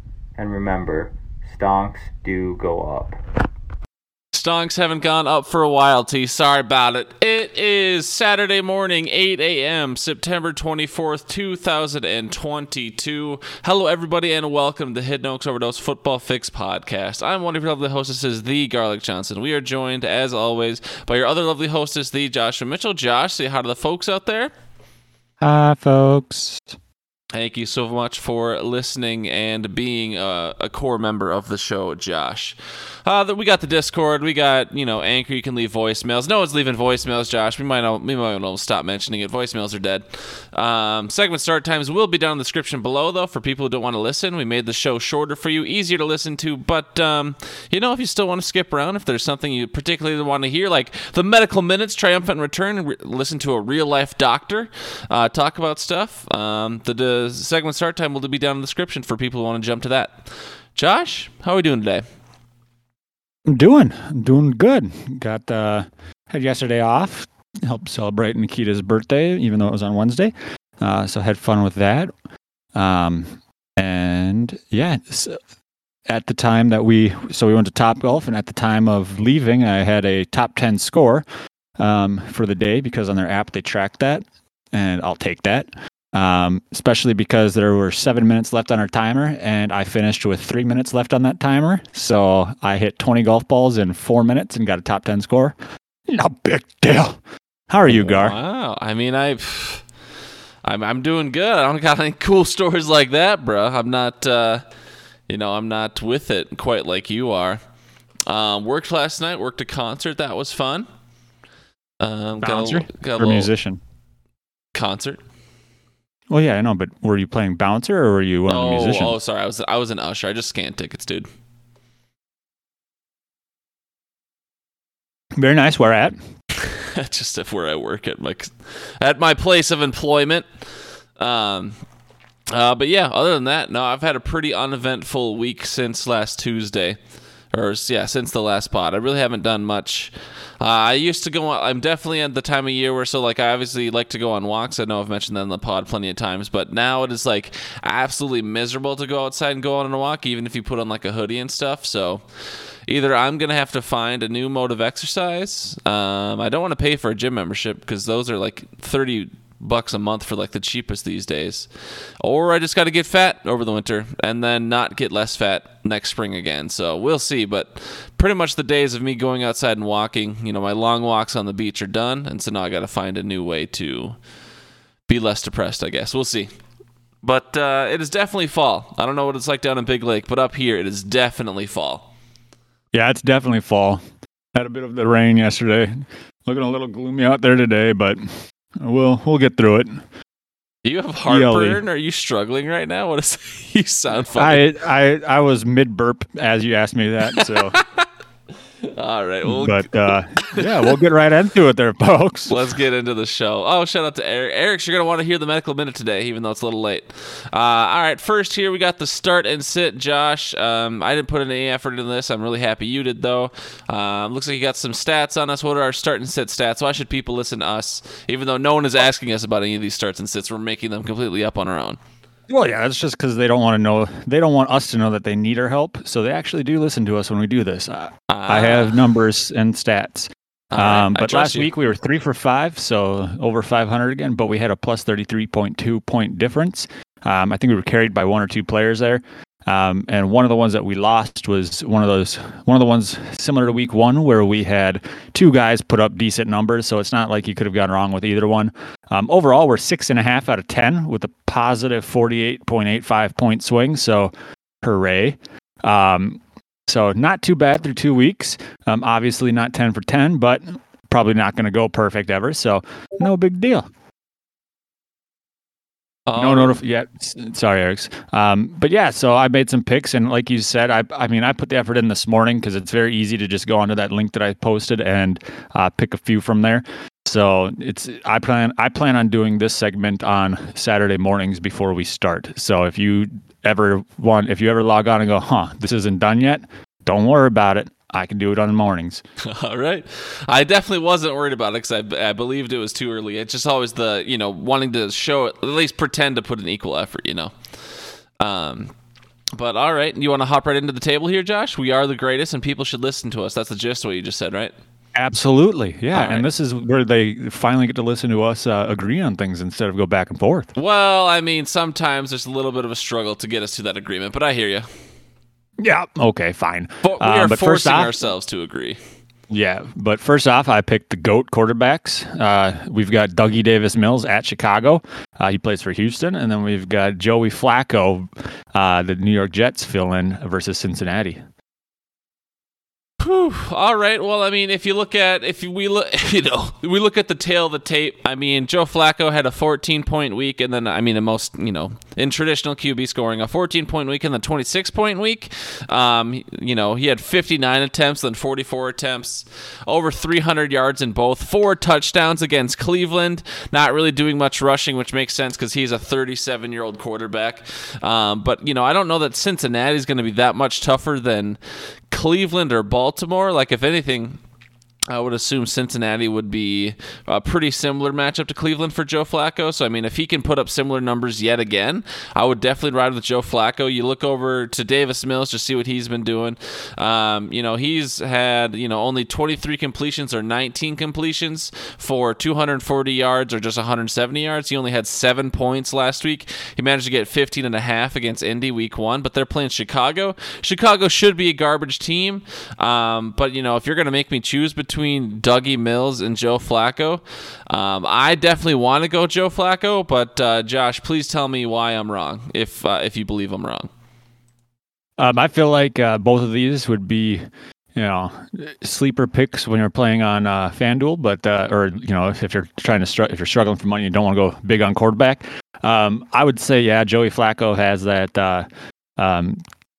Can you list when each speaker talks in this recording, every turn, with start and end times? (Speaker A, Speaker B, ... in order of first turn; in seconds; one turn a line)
Speaker A: 0.3-3.2
Speaker B: 4.3-24.5
Speaker C: 25.4-26.7
Speaker B: 27.3-62.0
Speaker C: 63.5-72.1
Speaker C: 72.7-75.4
Speaker C: 76.1-81.2
Speaker C: 81.8-95.5
Speaker C: 96.1-98.3
Speaker B: 97.9-99.8
Speaker B: 100.6-104.6
Speaker B: 105.3-107.6
Speaker B: 108.3-110.9
Speaker B: 112.0-113.5
Speaker C: 112.4-113.8
Speaker B: 114.7-115.2
Speaker C: 116.3-119.1
Speaker B: 118.5-121.3
Speaker C: 125.4-126.1
Speaker B: 126.5-130.5
Speaker B: 131.2-131.8
Speaker B: 132.5-137.0
Speaker B: 137.5-152.2
Speaker B: 152.9-161.7
Speaker B: 162.2-174.2
Speaker B: 175.1-176.5
Speaker B: 177.2-182.1
Speaker C: 182.9-184.0
Speaker C: 184.5-188.2
Speaker C: 188.8-190.0
Speaker B: 190.8-194.7
Speaker C: 191.3-191.8
Speaker C: 194.3-197.8
Speaker B: 197.4-198.0
Speaker B: 198.8-200.9
Speaker C: 199.4-202.5
Speaker B: 202.5-222.0
Speaker C: 222.5-263.9
Speaker B: 228.3-229.1
Speaker B: 230.7-231.7
Speaker B: 266.3-266.8
Speaker C: 266.4-289.2
Speaker B: 289.4-297.5
Speaker B: 298.4-298.9
Speaker B: 299.5-304.7
Speaker C: 305.1-310.7
Speaker B: 306.1-306.4
Speaker B: 310.8-314.9
Speaker C: 315.8-318.1
Speaker B: 317.0-319.0
Speaker C: 319.5-331.4
Speaker B: 333.2-361.6
Speaker B: 362.1-364.4
Speaker B: 365.1-403.9
Speaker C: 405.2-407.4
Speaker C: 407.9-418.6
Speaker C: 419.2-419.6